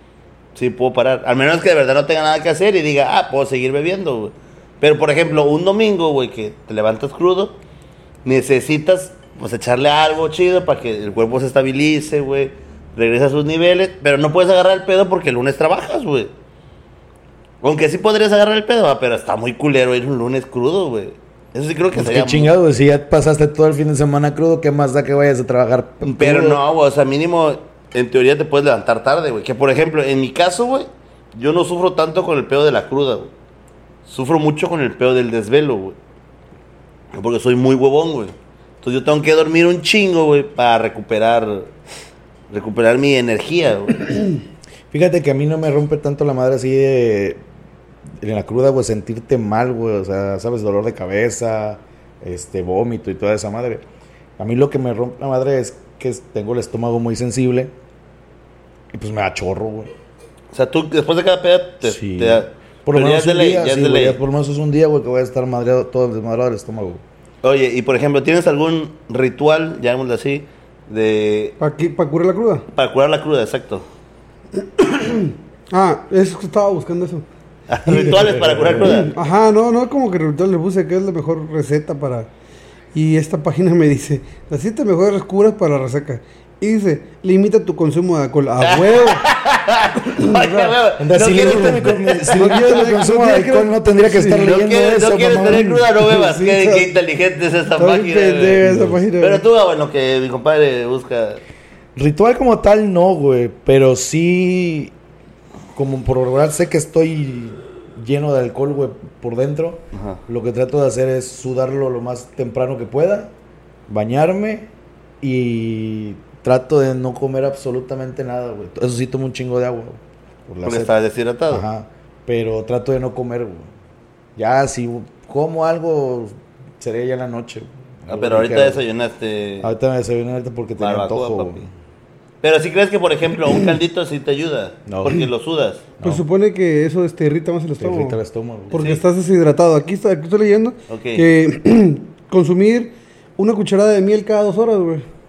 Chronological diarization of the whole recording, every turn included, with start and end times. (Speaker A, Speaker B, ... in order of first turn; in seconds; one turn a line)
Speaker A: 0.5-7.6
Speaker A: 8.2-16.3
Speaker A: 17.6-22.5
Speaker B: 21.9-26.6
Speaker A: 26.0-33.3
Speaker A: 34.0-36.0
Speaker A: 37.1-41.7
Speaker A: 42.5-44.2
Speaker B: 44.9-47.4
Speaker B: 48.2-53.8
Speaker B: 54.4-57.7
Speaker B: 58.9-59.9
Speaker A: 60.5-64.2
Speaker B: 61.8-67.0
Speaker A: 67.4-71.6
Speaker C: 71.6-72.6
Speaker A: 72.7-73.8
Speaker C: 74.8-77.2
Speaker A: 77.7-79.1
Speaker C: 77.9-78.2
Speaker B: 77.9-79.1
Speaker C: 78.8-82.3
Speaker C: 82.9-89.2
Speaker A: 88.6-92.9
Speaker C: 90.2-90.7
Speaker B: 91.0-95.9
Speaker C: 92.3-94.3
Speaker A: 94.2-101.4
Speaker C: 96.0-96.9
Speaker C: 97.8-99.4
Speaker B: 98.6-99.0
Speaker B: 102.0-104.9
Speaker B: 105.7-113.3
Speaker A: 109.9-110.2
Speaker B: 113.9-114.7
Speaker B: 115.2-120.9
Speaker A: 120.6-121.6
Speaker B: 121.5-123.7
Speaker B: 124.3-128.8
Speaker A: 128.1-129.7
Speaker B: 129.6-131.7
Speaker A: 130.8-131.6
Speaker A: 132.4-135.9
Speaker B: 134.9-135.3
Speaker C: 136.0-138.2
Speaker B: 137.8-139.0
Speaker C: 138.7-145.0
Speaker A: 140.9-141.2